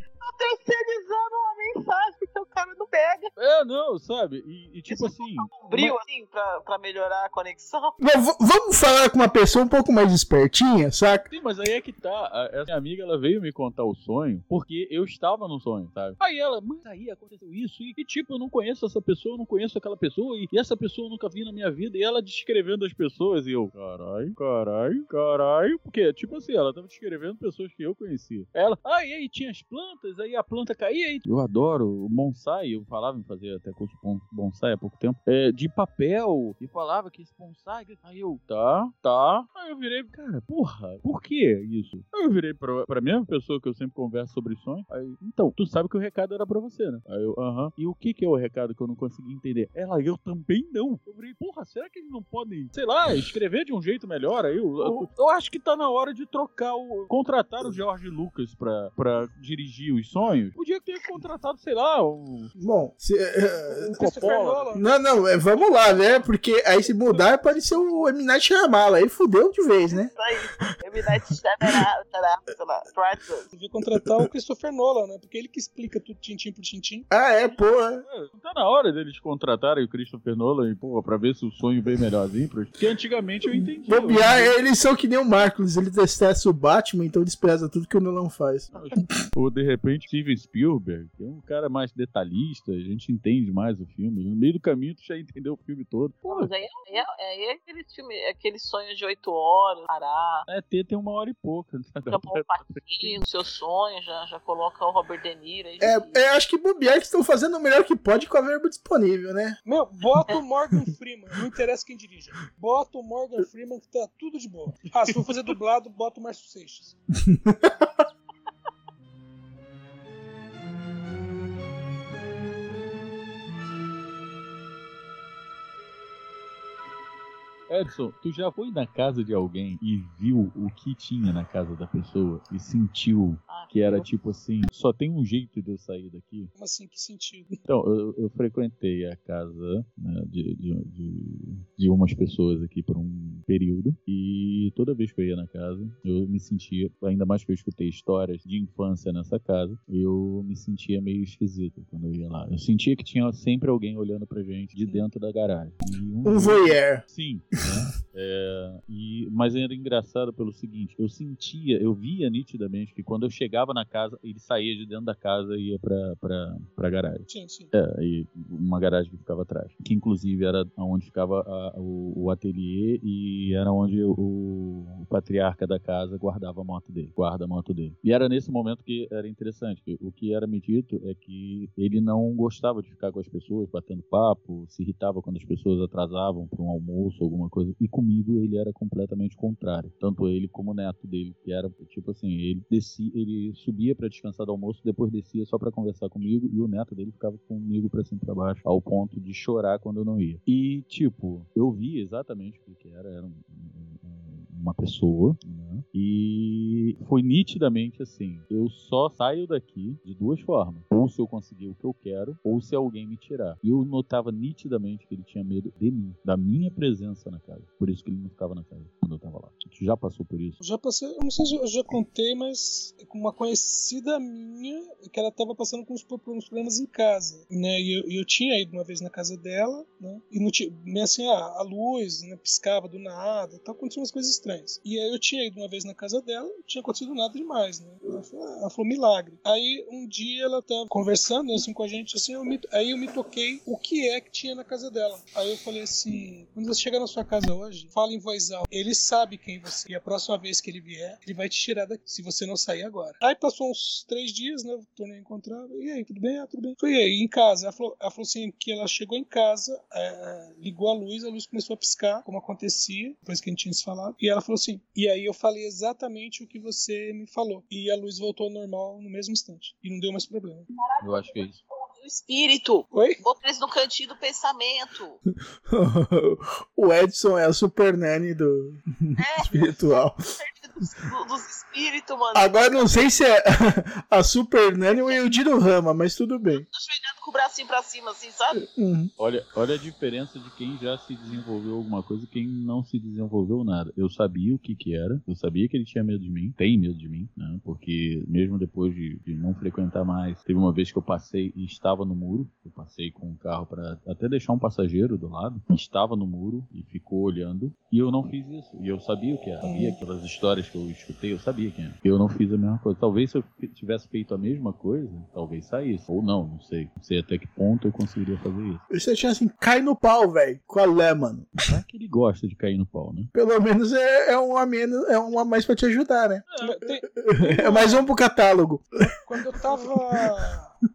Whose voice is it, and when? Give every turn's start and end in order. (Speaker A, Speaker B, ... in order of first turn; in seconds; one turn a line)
Speaker A: 0.2-3.3
Speaker B: 3.4-5.5
Speaker A: 4.9-8.0
Speaker C: 8.0-11.3
Speaker B: 11.3-62.5
Speaker C: 62.6-64.0
Speaker B: 63.7-64.8
Speaker D: 63.9-64.9
Speaker C: 64.8-70.1
Speaker D: 67.1-67.6
Speaker A: 69.9-73.5
Speaker D: 73.5-77.1
Speaker C: 74.0-74.3
Speaker C: 77.1-78.0
Speaker B: 78.0-84.5
Speaker C: 83.5-89.1
Speaker B: 88.7-96.5
Speaker A: 96.2-100.5
Speaker B: 100.5-103.2
Speaker A: 102.1-106.2
Speaker C: 105.8-109.6
Speaker D: 109.7-117.0
Speaker C: 117.2-117.9
Speaker B: 127.7-136.5
Speaker A: 133.5-134.1
Speaker D: 136.6-137.6
Speaker B: 137.7-220.6
Speaker C: 156.2-157.0
Speaker D: 167.3-167.7
Speaker D: 220.6-270.7
Speaker A: 270.8-275.2
Speaker B: 271.0-271.6
Speaker D: 272.9-273.2
Speaker C: 275.7-280.2
Speaker A: 279.2-282.7
Speaker C: 282.3-286.7
Speaker A: 284.9-285.2
Speaker A: 286.5-288.6
Speaker C: 288.6-289.1
Speaker B: 289.2-318.9
Speaker D: 309.6-310.0
Speaker C: 318.9-321.5
Speaker B: 321.7-323.3
Speaker C: 323.3-326.4
Speaker D: 326.6-328.0
Speaker C: 327.2-328.9
Speaker D: 329.2-330.8
Speaker C: 329.6-330.4